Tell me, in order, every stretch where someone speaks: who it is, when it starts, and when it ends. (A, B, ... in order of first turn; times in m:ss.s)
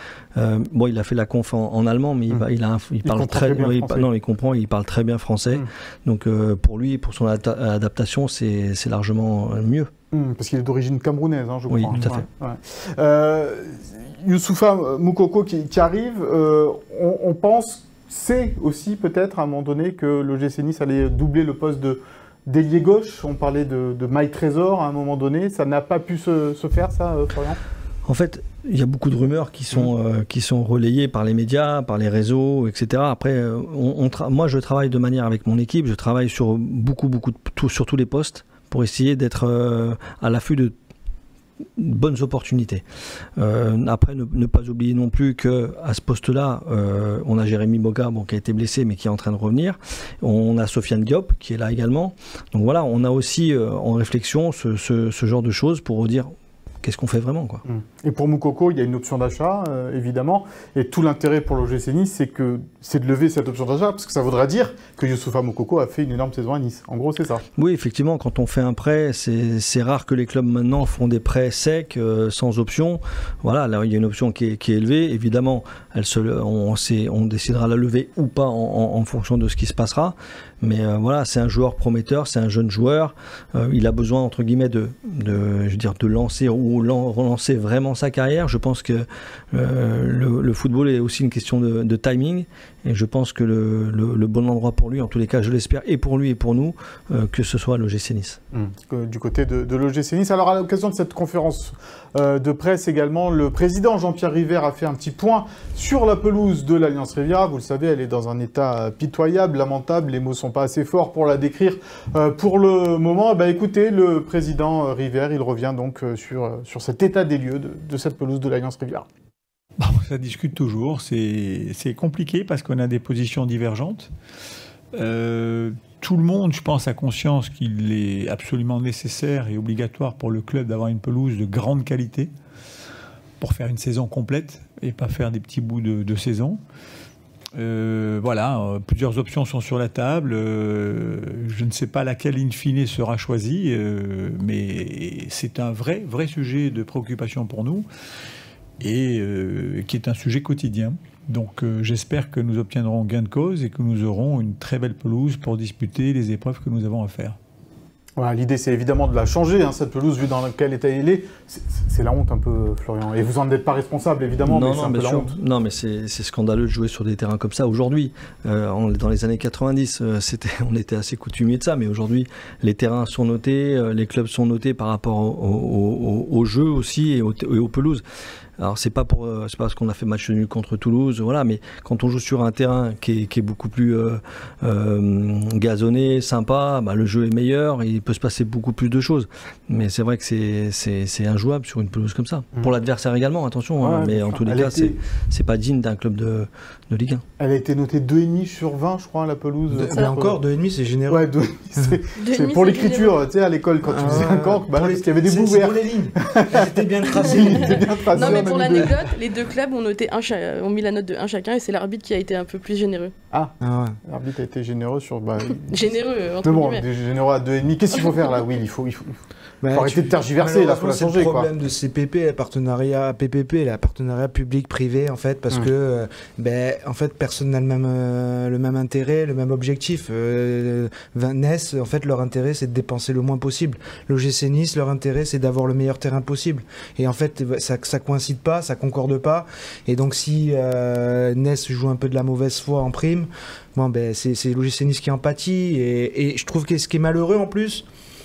0:00.3-0:09.9 A
0:03.0-0:04.1 B
0:10.1-0:27.6 B
0:11.7-0:12.2 A
0:28.0-0:40.7 A
0:41.8-0:42.8 A
0:43.4-0:56.3 A
0:56.8-0:57.6 A
0:57.6-1:07.4 B
1:07.6-1:38.4 A
1:38.5-1:59.0 B
1:59.8-2:04.1 C
2:04.9-2:12.3 C
2:13.4-2:16.6 C
2:17.5-2:27.9 C
2:28.8-2:37.4 C
2:38.2-2:45.4 B
2:44.4-2:58.0 A
2:58.6-3:17.2 A
3:13.8-3:15.0 B
3:17.4-3:20.4 B
3:19.7-3:22.0 D
3:21.1-3:29.0 B
3:22.2-3:23.2 E
3:23.8-3:28.9 D
3:27.2-3:33.1 E
3:33.3-3:35.8 B
3:33.6-3:34.0 D
3:35.7-3:36.8 E
3:36.4-3:39.1 B
3:39.6-4:07.8 D
3:39.7-3:41.5 B